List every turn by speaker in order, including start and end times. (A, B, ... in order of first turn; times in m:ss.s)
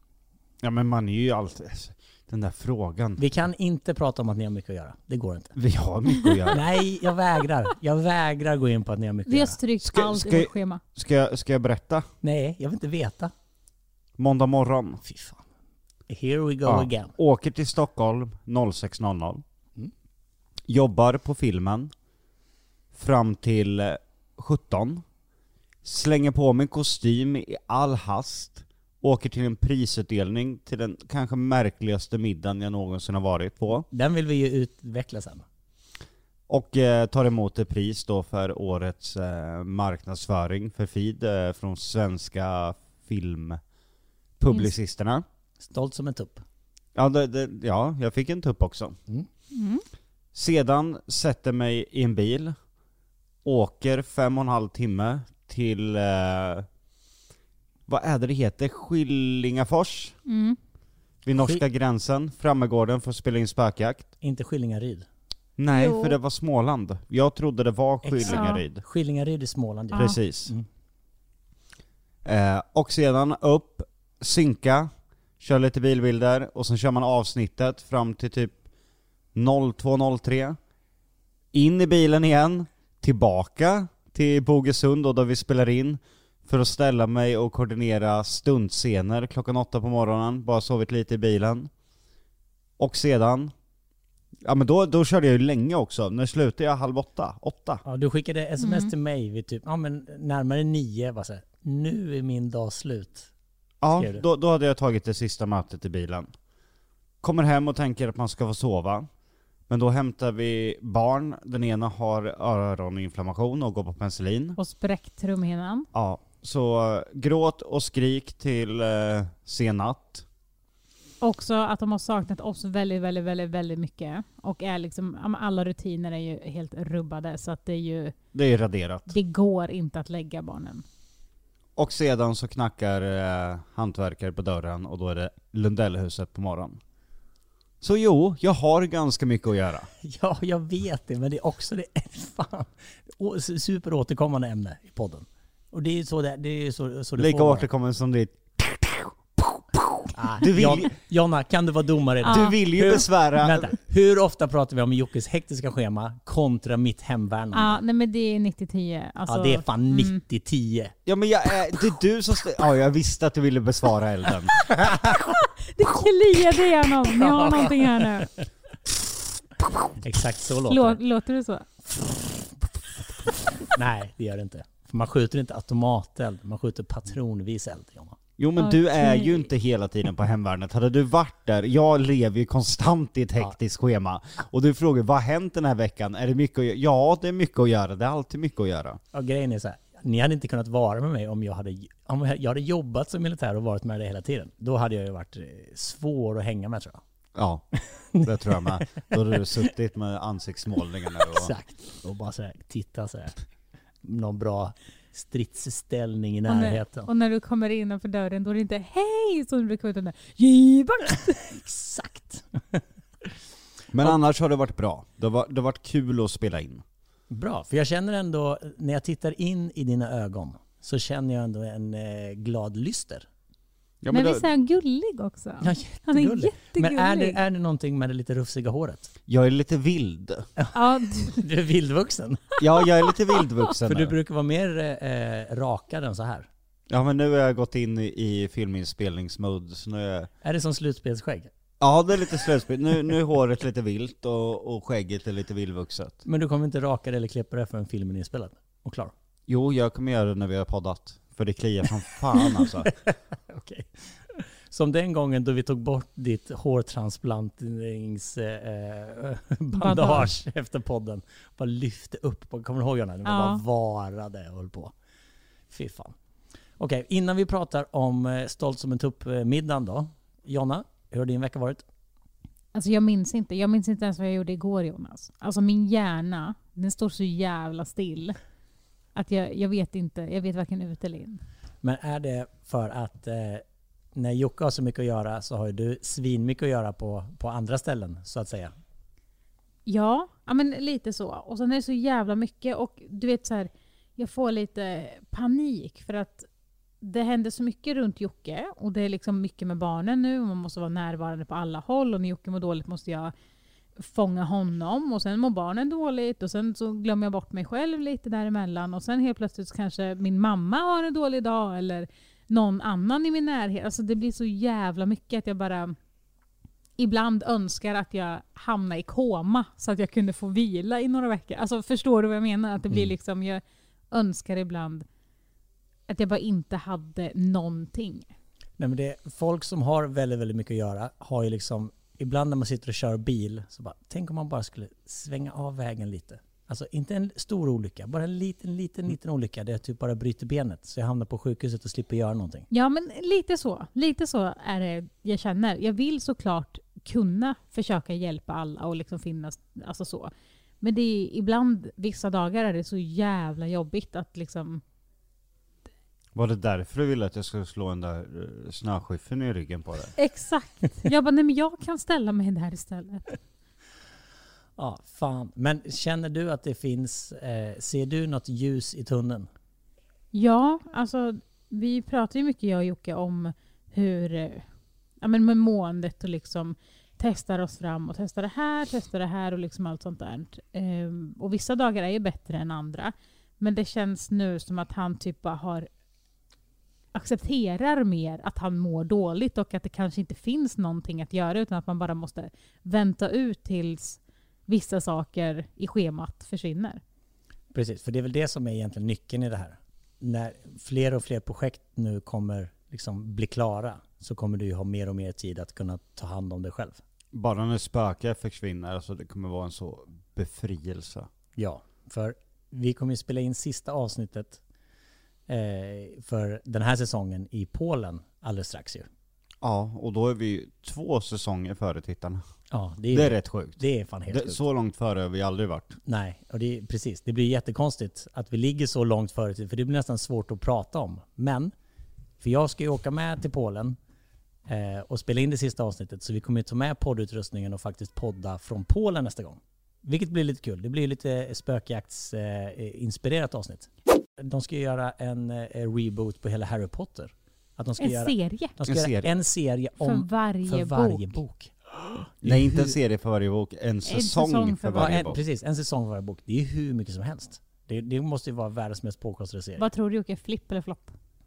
0:00.6-0:03.2 A
0:03.2-0:05.6 B
0:05.6-0:06.6 A
0:06.5-0:09.6 B
0:09.3-0:10.8 C
0:09.8-0:12.1 A
0:12.2-0:13.3 B
0:14.2-0:15.0 A
0:15.0-0:15.4 B
0:16.1-0:17.1 B
0:16.6-0:19.4 A
0:20.7-0:21.9 A
0:22.9-0:25.0 A
0:25.8-0:33.8 A
0:33.8-0:35.4 B
0:36.5-0:43.6 A
0:44.4-0:45.2 A
0:45.6-0:46.4 B
0:47.0-0:49.0 A
0:49.5-0:49.8 C
0:50.3-0:52.6 A
0:53.4-0:56.7 A
0:57.9-1:00.2 A
1:00.2-1:00.6 C
1:01.2-1:04.1 A
1:01.3-1:01.6 B
1:04.2-1:05.1 B
1:05.6-1:08.8 A
1:05.7-1:06.2 C
1:08.0-1:10.7 B
1:08.2-1:08.6 C
1:09.9-1:10.2 C
1:10.0-1:10.5 A
1:12.2-1:18.5 A
1:19.3-1:20.6 A
1:21.5-1:31.7 A
1:32.8-1:33.5 A
1:34.4-1:37.8 A
1:37.8-1:43.3 B
1:38.6-1:38.9 C
1:43.8-1:46.3 A
1:43.9-1:44.2 B
1:47.2-1:49.1 A
1:49.7-1:54.6 A
1:54.6-1:55.9 C
1:55.9-2:00.2 A
2:01.2-2:08.1 C
2:08.3-2:09.1 A
2:09.1-2:10.8 C
2:11.8-2:16.8 A
2:17.8-2:19.9 A
2:20.0-2:27.7 B
2:27.2-2:30.9 A
2:30.1-2:37.8 B
2:32.2-2:33.7 A
2:32.2-2:32.5 C
2:37.5-2:40.2 C
2:39.3-2:40.9 B
2:41.0-2:44.7 A
2:44.8-2:45.1 B
2:45.5-2:48.3 C
2:47.1-2:48.2 B
2:50.0-2:51.0 B
2:50.7-2:51.7 C
2:52.0-2:52.5 B
2:53.6-2:58.2 B
2:58.4-3:09.0 A
2:58.6-2:59.4 C
3:09.1-3:17.0 B
3:17.4-3:21.5 A
3:18.1-3:19.7 B
3:21.2-3:23.4 B
3:24.0-3:27.1 B
3:26.5-3:31.5 C
3:31.4-3:32.8 B
3:33.9-3:36.8 A
3:37.3-3:43.2 B
3:44.0-3:44.4 A
3:44.1-3:47.4 C
3:45.6-3:49.1 B
3:49.3-3:50.5 A
3:50.7-3:51.4 C
3:51.2-3:52.4 B
3:52.6-3:54.1 A
3:53.8-3:56.5 B
3:56.9-4:00.3 A
4:00.4-4:01.5 B
4:01.8-4:06.2 A
4:06.2-4:09.1 B
4:09.5-4:12.9 A
4:12.4-4:24.9 B
4:19.7-4:20.3 C
4:23.2-4:23.6 C
4:25.7-4:26.2 B
4:26.8-4:31.8 B
4:32.7-4:38.4 C
4:39.1-4:41.4 C
4:41.8-4:48.7 B
4:49.8-4:56.5 C
4:57.0-5:03.3 C
5:04.0-5:16.0 C
5:17.0-5:25.0 C
5:26.1-5:28.3 C
5:28.8-5:42.7 B
5:42.7-5:54.8 C
5:56.3-6:00.1 A
6:00.2-6:03.3 C
6:04.8-6:09.5 B
6:10.3-6:14.6 C
6:15.2-6:25.9 C
6:27.1-6:37.0 C
6:37.7-6:47.0 B
6:47.3-6:51.3 A
6:51.6-6:54.6 B
6:55.5-6:59.1 B
6:59.6-7:02.4 A
7:02.7-7:04.6 B
7:03.1-7:06.0 A
7:06.0-7:11.7 B
7:12.4-7:14.0 B
7:14.6-7:33.0 B
7:28.0-7:28.7 C
7:28.9-7:29.3 A
7:30.0-7:31.4 C
7:32.4-7:35.4 A
7:34.0-7:35.3 C
7:35.0-7:39.8 B
7:39.8-7:41.1 C